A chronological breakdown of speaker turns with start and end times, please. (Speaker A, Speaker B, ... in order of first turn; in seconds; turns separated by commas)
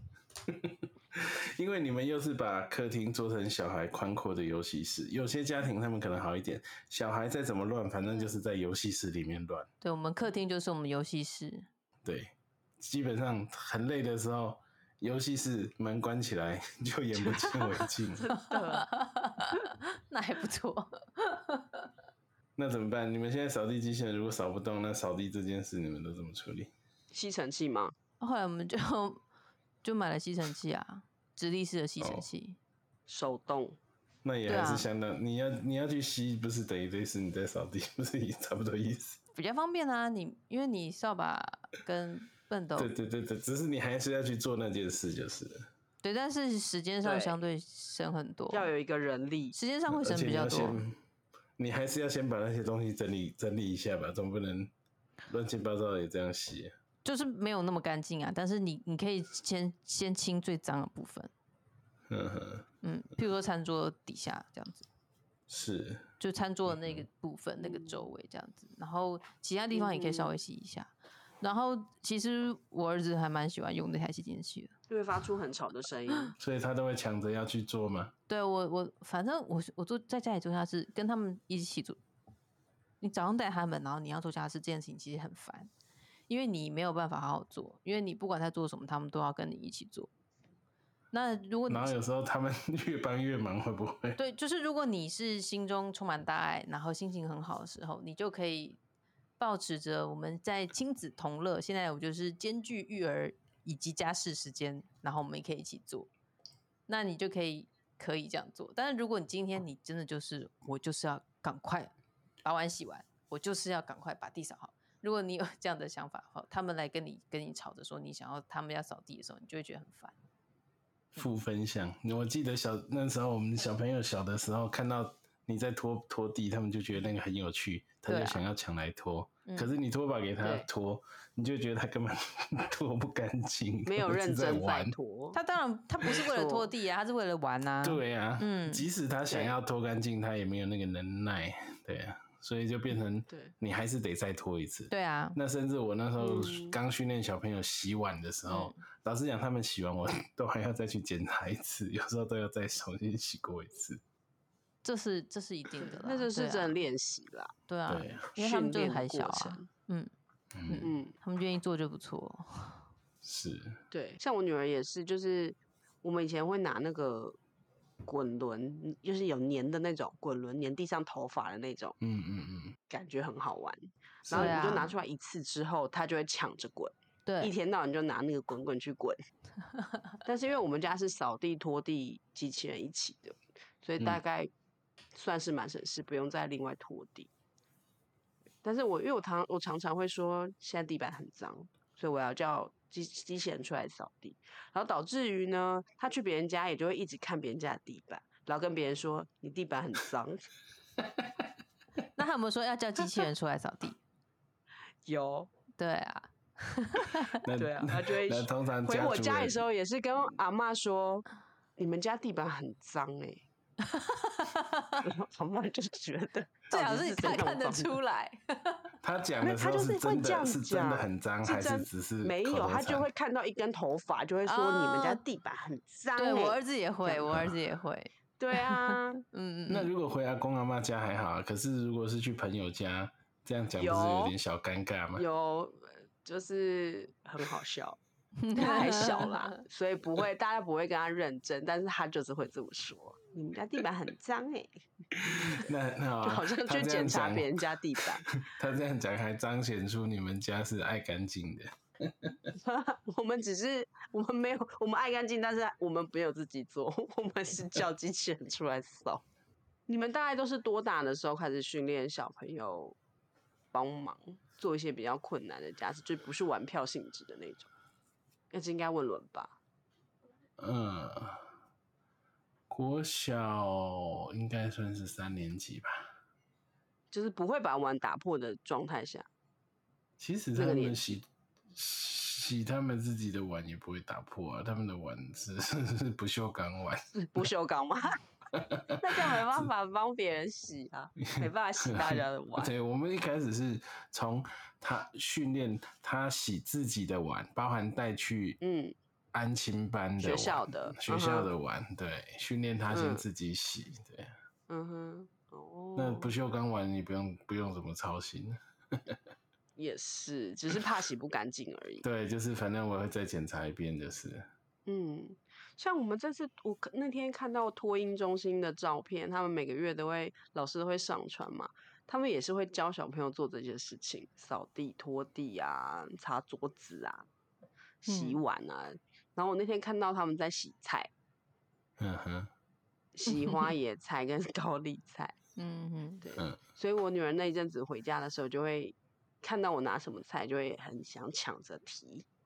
Speaker A: 0.5-9.7, Speaker B: 9.8-11.7, Speaker A: 12.0-18.3, Speaker C: 17.2-18.9, Speaker B: 18.5-21.9, Speaker A: 22.6-26.7, Speaker C: 27.1-27.9, Speaker B: 28.2-29.2, Speaker B: 29.8-32.6, Speaker A: 32.0-32.3, Speaker C: 33.1-33.8, Speaker A: 34.2-39.2, Speaker B: 34.5-34.9, Speaker B: 39.4-42.9, Speaker A: 42.8-45.7, Speaker B: 46.0-48.7, Speaker C: 47.0-47.4, Speaker C: 48.5-49.5, Speaker B: 49.5-50.8, Speaker A: 49.9-51.0, Speaker A: 51.6-54.7, Speaker A: 55.3-56.7, Speaker B: 57.0-61.3, Speaker A: 62.1-62.7, Speaker B: 62.8-64.9, Speaker A: 65.5-66.1, Speaker B: 66.2-74.8, Speaker A: 66.7-67.0, Speaker C: 67.6-68.0, Speaker C: 69.7-70.3, Speaker C: 74.9-76.3, Speaker A: 76.4-78.1, Speaker B: 78.3-82.0, Speaker B: 83.0-85.7, Speaker B: 86.3-90.1, Speaker B: 91.1-91.9, Speaker A: 91.7-94.2, Speaker B: 94.2-98.8, Speaker B: 99.4-106.1, Speaker B: 106.9-120.2, Speaker A: 121.2-134.9, Speaker B: 128.1-128.4, Speaker B: 129.5-129.7, Speaker C: 130.4-130.7, Speaker C: 133.9-135.4, Speaker B: 135.3-138.9, Speaker C: 136.1-136.7, Speaker A: 137.8-154.0, Speaker C: 139.3-139.6, Speaker B: 144.9-145.4, Speaker C: 146.2-146.8, Speaker B: 148.5-148.8, Speaker B: 154.8-156.8, Speaker C: 155.8-157.5, Speaker B: 157.7-160.1, Speaker A: 157.9-158.3, Speaker C: 158.4-159.7, Speaker A: 160.5-160.9, Speaker B: 160.7-162.8, Speaker C: 160.8-161.1, Speaker A: 163.2-163.8, Speaker C: 163.9-167.4, Speaker C: 168.1-171.9, Speaker A: 172.0-172.8, Speaker C: 172.9-179.2, Speaker A: 174.3-174.7, Speaker B: 174.3-174.9, Speaker B: 177.3-177.5, Speaker C: 180.2-184.5, Speaker C: 185.2-187.3, Speaker C: 188.6-200.4, Speaker B: 202.2-204.0, Speaker C: 205.1-205.5, Speaker B: 205.8-207.4, Speaker A: 207.4-209.6, Speaker C: 207.5-211.2, Speaker C: 211.8-213.4, Speaker B: 213.8-215.1, Speaker C: 215.0-218.0, Speaker B: 216.7-218.9, Speaker A: 219.0-223.1, Speaker C: 219.4-227.4, Speaker B: 224.5-225.2, Speaker B: 226.2-229.9, Speaker A: 227.3-227.6, Speaker C: 228.4-229.2, Speaker A: 229.7-235.2, Speaker C: 233.8-234.3, Speaker C: 235.2-238.0, Speaker B: 238.4-239.6, Speaker C: 238.5-244.7, Speaker C: 245.2-245.7, Speaker A: 245.2-252.5, Speaker C: 246.2-248.3, Speaker C: 252.6-259.2, Speaker C: 259.9-263.0, Speaker C: 263.7-267.7, Speaker C: 268.5-269.6, Speaker A: 270.6-271.5, Speaker A: 272.7-276.1, Speaker C: 277.1-279.3, Speaker A: 280.2-287.1, Speaker C: 280.6-281.2, Speaker C: 287.1-288.2, Speaker A: 288.6-289.5, Speaker C: 289.0-292.7, Speaker A: 291.3-298.6, Speaker C: 298.6-298.9, Speaker A: 299.3-304.3, Speaker C: 300.2-301.5, Speaker C: 302.9-303.2, Speaker C: 304.7-306.3, Speaker A: 306.0-309.2, Speaker C: 309.8-312.1, Speaker A: 312.0-314.5, Speaker C: 314.9-327.3, Speaker C: 328.0-331.1, Speaker B: 328.1-328.4, Speaker A: 332.0-332.5, Speaker C: 333.2-335.4, Speaker B: 335.6-336.2, Speaker C: 336.2-342.3